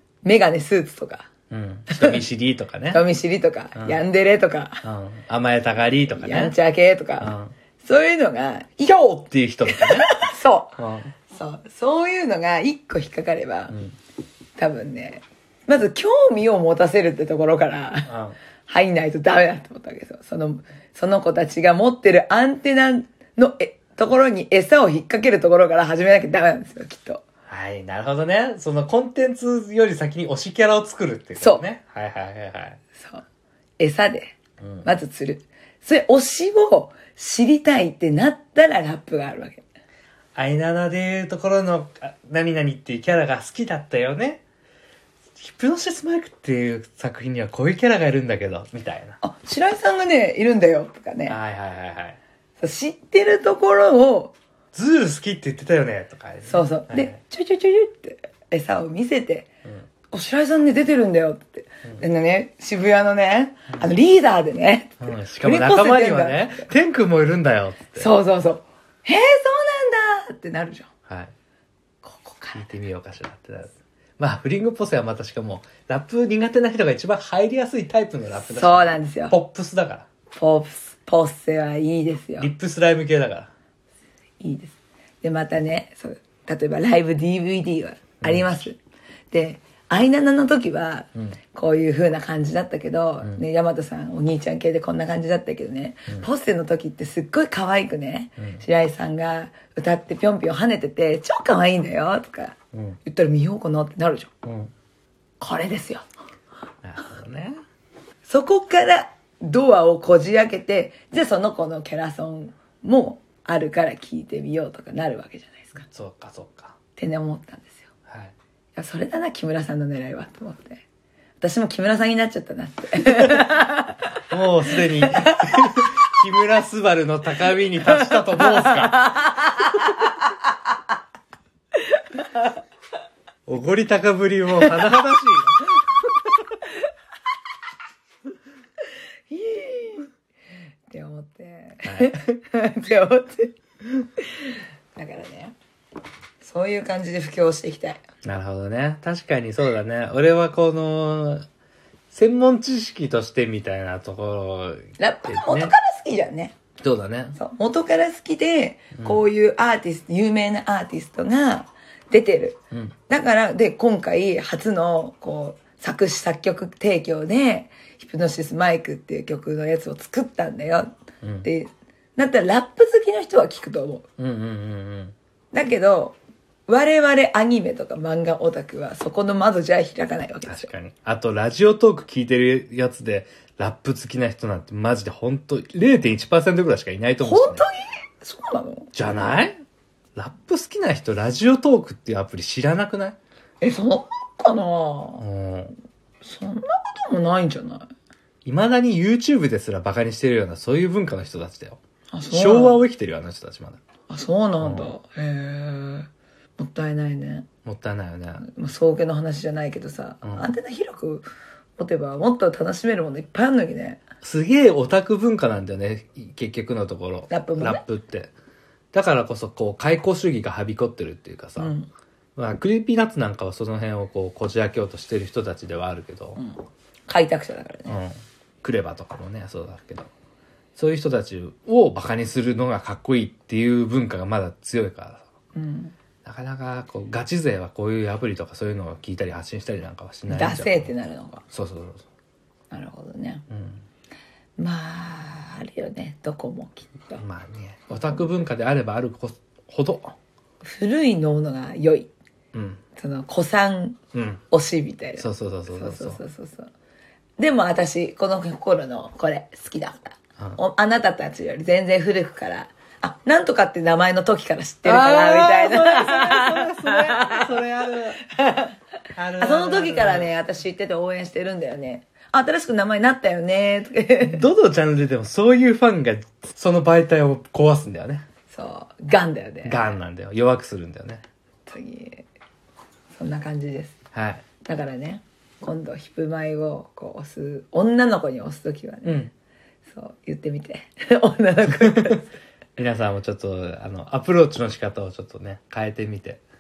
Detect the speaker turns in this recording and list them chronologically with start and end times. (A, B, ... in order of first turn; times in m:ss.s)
0:00.2-0:01.3 A
0:01.5-0:03.0 B
0:01.9-0:02.2 A
0:02.9-0:04.8 A
0:04.8-0:06.5 B
0:06.1-0:09.0 A
0:07.2-0:07.5 B
0:09.0-0:10.1 B
0:09.6-0:10.7 A
0:10.8-0:11.1 B
0:11.3-0:13.8 A
0:14.6-0:18.1 A
0:18.1-0:18.4 B
0:18.7-0:27.2 A
0:27.5-0:32.8 B
0:31.4-0:31.6 A
0:33.0-0:33.2 A
0:33.8-0:39.6 A
0:34.6-0:34.9 B
0:40.3-0:44.4 B
0:45.4-0:49.2 B
0:49.2-0:51.4 A
0:51.2-0:52.2 B
0:52.6-0:54.3 A
0:54.7-0:57.2 B
0:56.4-0:59.5 A
1:00.1-1:06.7 A
1:05.0-1:08.1 B
1:08.0-1:10.9 A
1:11.1-1:11.3 B
1:12.0-1:12.6 A
1:12.5-1:20.0 B
1:18.4-1:19.3 A
1:20.3-1:22.5 A
1:22.4-1:23.5 B
1:24.4-1:28.8 A
1:29.3-1:44.3 A
1:38.4-1:38.6 B
1:44.4-1:44.7 B
1:45.4-1:46.0 A
1:46.8-1:47.6 B
1:48.2-1:55.8 A
1:55.8-1:56.7 B
1:57.0-1:57.9 A
1:58.1-1:58.3 B
1:58.7-2:00.8 A
2:01.4-2:04.2 A
2:04.3-2:09.1 B
2:04.7-2:05.8 A
2:08.1-2:10.2 A
2:11.9-2:12.2 A
2:13.5-2:15.6 B
2:19.3-2:20.1 A
2:20.9-2:25.5 A
2:21.8-2:22.2 B
2:26.4-2:28.0 A
2:28.2-2:31.4 B
2:32.1-2:35.7 B
2:35.0-2:36.5 A
2:36.8-2:37.4 B
2:37.4-2:42.6 A
2:43.1-2:50.9 A
2:51.4-2:54.0 A
2:54.2-2:55.1 B
2:55.5-3:00.7 A
3:00.5-3:07.6 B
3:07.2-3:08.9 A
3:08.9-3:09.6 B
3:10.2-3:13.2 B
3:13.6-3:15.2 A
3:15.2-3:15.7 B
3:16.2-3:17.9 A
3:18.4-3:21.8 B
3:22.1-3:22.8 A
3:22.3-3:23.8 B
3:24.1-3:27.5 A
3:24.6-3:24.9 B
3:27.6-3:28.4 B
3:28.4-3:31.2 A
3:31.8-3:34.0 A
3:34.2-3:38.3 B
3:37.3-3:37.8 A
3:38.9-3:41.7 B
3:41.6-3:41.9 A
3:42.4-3:46.4 B
3:46.4-3:48.0 A
3:47.9-3:50.1 B
3:50.8-3:55.2 B
3:55.5-3:55.9 A
3:56.2-4:00.9 B
4:00.3-4:01.4 A
4:01.5-4:02.0 B
4:02.7-4:03.4 A
4:03.5-4:03.8 B
4:04.6-4:07.2 A
4:07.2-4:10.1 B
4:10.6-4:12.1 A
4:12.5-4:12.8 B
4:13.0-4:14.0 A
4:14.1-4:14.4 B
4:14.5-4:16.7 A
4:15.2-4:16.2 B
4:17.4-4:28.7 A
4:24.8-4:28.2 B
4:29.2-4:30.3 B
4:29.4-4:34.4 A
4:34.2-4:38.2 B
4:38.5-4:40.0 A
4:39.6-4:41.2 B
4:41.7-4:42.2 A
4:43.1-4:43.9 A
4:44.1-4:44.4 B
4:44.6-4:49.3 A
4:49.0-4:49.3 B
4:49.9-4:52.3 A
4:52.8-4:56.4 B